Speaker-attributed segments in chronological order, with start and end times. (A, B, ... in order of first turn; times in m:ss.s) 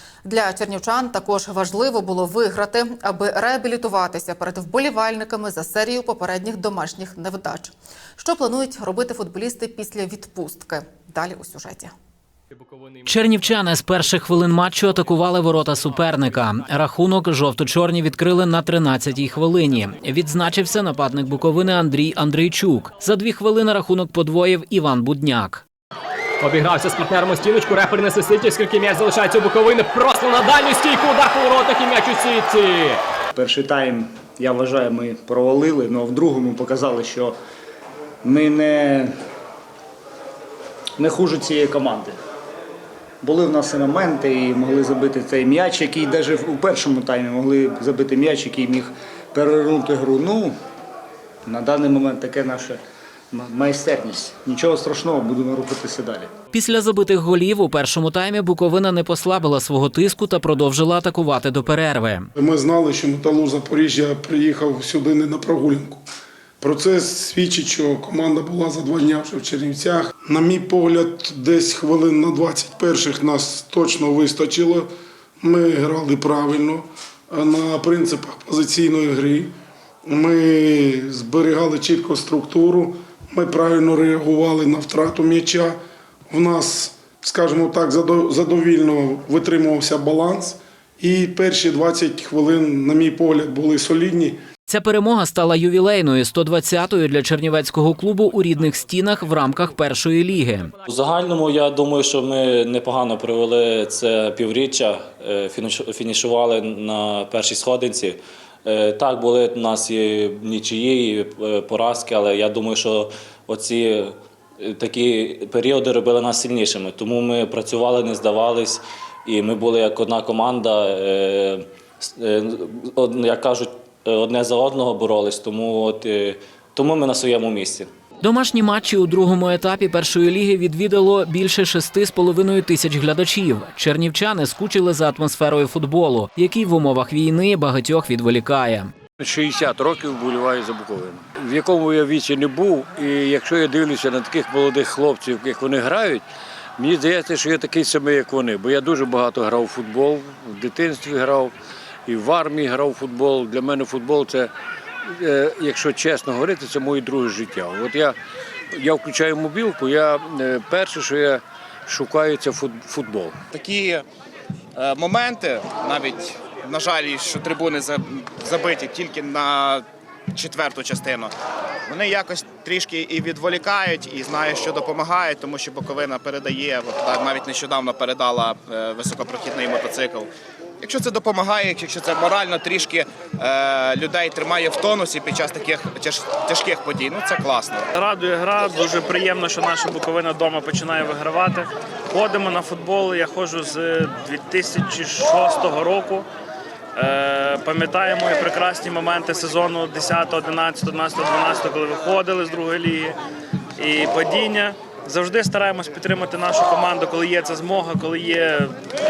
0:00.2-0:11.9 A
0:13.0-0:25.6 B
0:26.4-0:33.0 C
0:33.4-0:37.4 D
0:38.2-0:39.1 D
0:41.0-0:42.2 D
0:43.2-0:50.6 D
0:51.5-0:52.8 D
0:53.3-0:56.3 D
0:56.5-1:02.3 B
1:02.4-1:06.0 E
1:06.6-1:14.9 E
1:15.4-1:19.5 E
1:20.1-1:25.8 E
1:26.3-1:34.4 E
1:34.7-1:40.7 B
1:40.8-2:07.9 F
2:08.2-2:18.9 B
2:19.2-2:26.2 G
2:26.8-2:31.5 G
2:32.1-2:34.5 G
2:35.1-2:38.2 G
2:38.7-2:43.3 G
2:43.5-2:44.0 H
2:44.8-2:51.3 H
2:51.9-3:00.3 H
3:00.8-3:07.9 H
3:08.0-3:16.3 I
3:17.0-3:23.2 I
3:23.8-3:28.7 I